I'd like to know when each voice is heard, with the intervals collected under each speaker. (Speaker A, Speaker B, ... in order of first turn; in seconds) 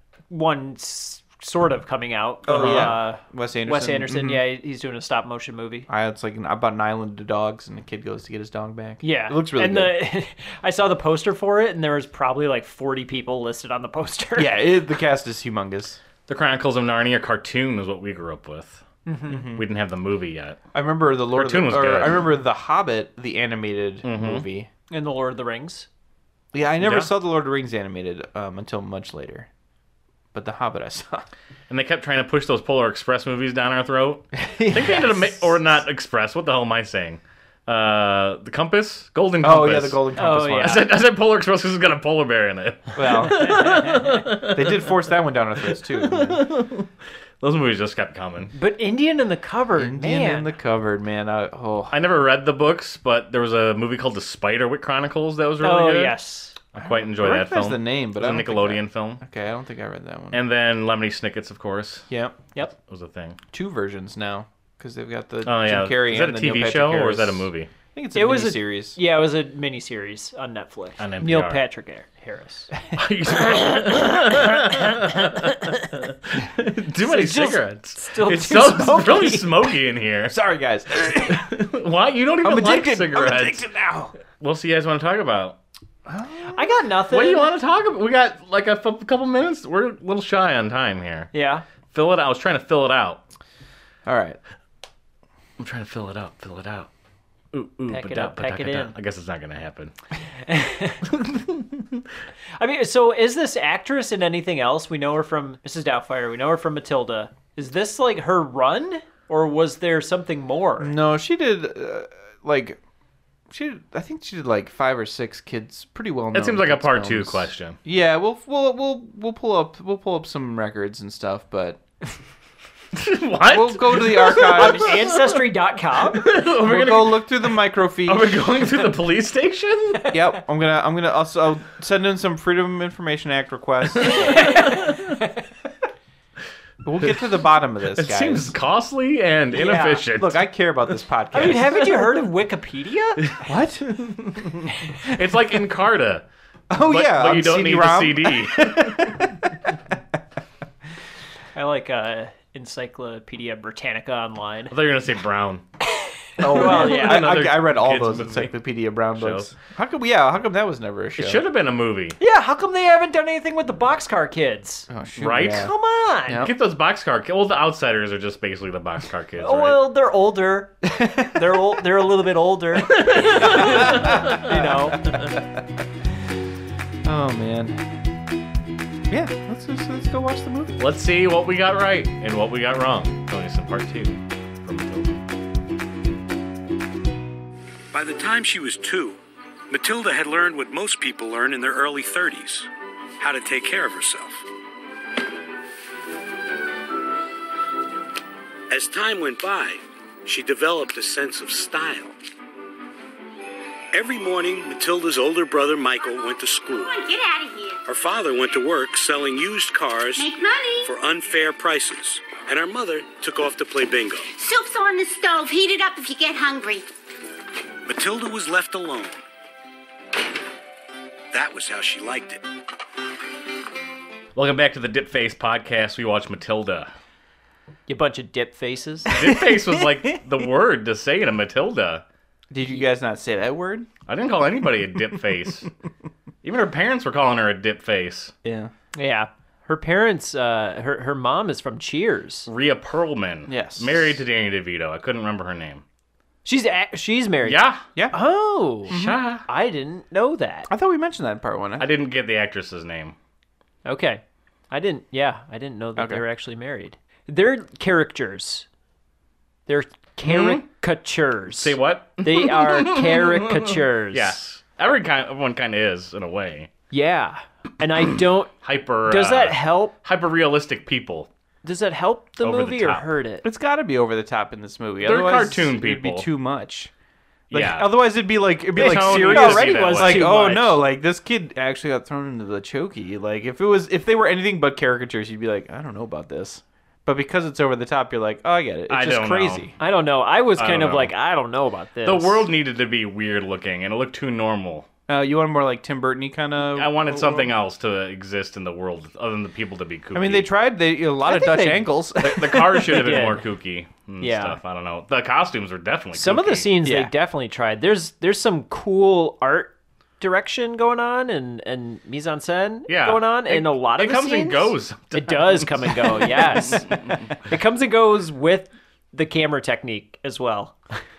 Speaker A: 0.3-5.9, 9.0-14.7, 19.1-19.5, 24.9-25.9, 40.1-40.9, 43.3-44.2, 48.5-50.5, 55.6-56.6, 68.1-72.7, 77.0-79.7, 86.5-87.5, 91.3-91.6, 97.9-99.0, 100.5-101.1, 102.6-110.9, 124.3-126.3, 134.2-135.3, 139.5-140.1, 141.3-143.4, 151.5-154.7, 156.4-157.4, 162.2-166.4, 169.4-175.2, 227.9-229.1, 238.9-242.5, 246.4-250.7, 253.8-258.6, 259.7-264.4, 266.9-269.9, 271.6-273.4, 278.8-280.8, 289.8-292.5, 301.3-302.0, 302.6-303.4, 304.2-304.6, 306.1-320.8
Speaker B: 2.5-4.4, 5.9-9.9, 14.3-16.0, 19.3-19.6, 20.7-24.7, 26.5-29.5, 30.3-31.3, 34.3-35.5, 39.4-40.8, 42.9-43.8, 44.4-46.4, 49.8-52.0, 56.8-60.4, 62.1-62.5, 63.5-69.0, 80.3-81.5, 82.4-84.1, 86.0-86.7, 94.0-94.4, 110.8-112.8, 113.5-121.8, 123.5-125.1, 126.6-128.5, 130.1-134.4, 136.8-138.6, 140.1-141.9, 143.4-144.4, 146.7-149.5, 156.4-161.4, 164.9-165.7, 170.9-171.3, 173.3-175.6, 177.0-177.9, 179.1-180.8, 229.2-230.2, 232.5-233.9, 238.4-238.7, 243.5-244.2, 247.9-248.2, 248.9-249.2, 250.7-251.9, 255.9-256.2, 273.4-276.9, 277.5-289.7, 295.1-297.5, 300.1-303.2, 306.8-307.1
Speaker C: 2.5-2.9, 16.3-18.8, 19.5-20.6, 21.3-22.3, 24.0-24.5, 26.8-27.1, 31.7-44.8, 46.0-46.9, 47.4-48.5, 51.9-56.1, 56.7-59.2, 60.3-63.4, 65.4-67.7, 71.0-71.6, 73.0-80.3, 81.2-83.6, 84.4-85.6, 87.1-91.3, 91.9-93.2, 95.6-96.9, 97.5-99.9, 101.2-102.0, 116.3-117.8, 122.9-125.3, 126.1-127.3, 128.0-130.1, 134.0-135.2, 137.9-140.4, 143.9-146.2, 146.8-149.3, 154.7-155.6, 156.4-158.6, 159.2-159.5, 161.2-162.2, 165.2-165.7, 166.3-169.8, 172.9-174.5, 180.8-185.2, 224.3-226.9, 229.1-232.0, 234.1-235.7, 236.4-238.3, 242.4-245.8, 247.4-247.8, 248.9-249.4, 251.8-253.1, 260.2-260.6, 261.6-266.7, 268.6-271.3, 272.4-273.1, 275.0-276.3, 277.5-277.9, 278.8-280.2, 288.9-289.7, 290.6-291.1, 292.0-294.9, 296.8-300.5, 302.2-306.7, 312.9-317.2
Speaker D: 187.9-189.2, 189.7-192.7, 193.2-194.4, 198.7-202.1, 203.9-207.0, 207.8-214.3, 217.8-219.2, 221.3-222.4
Speaker E: 207.1-207.8, 214.4-216.8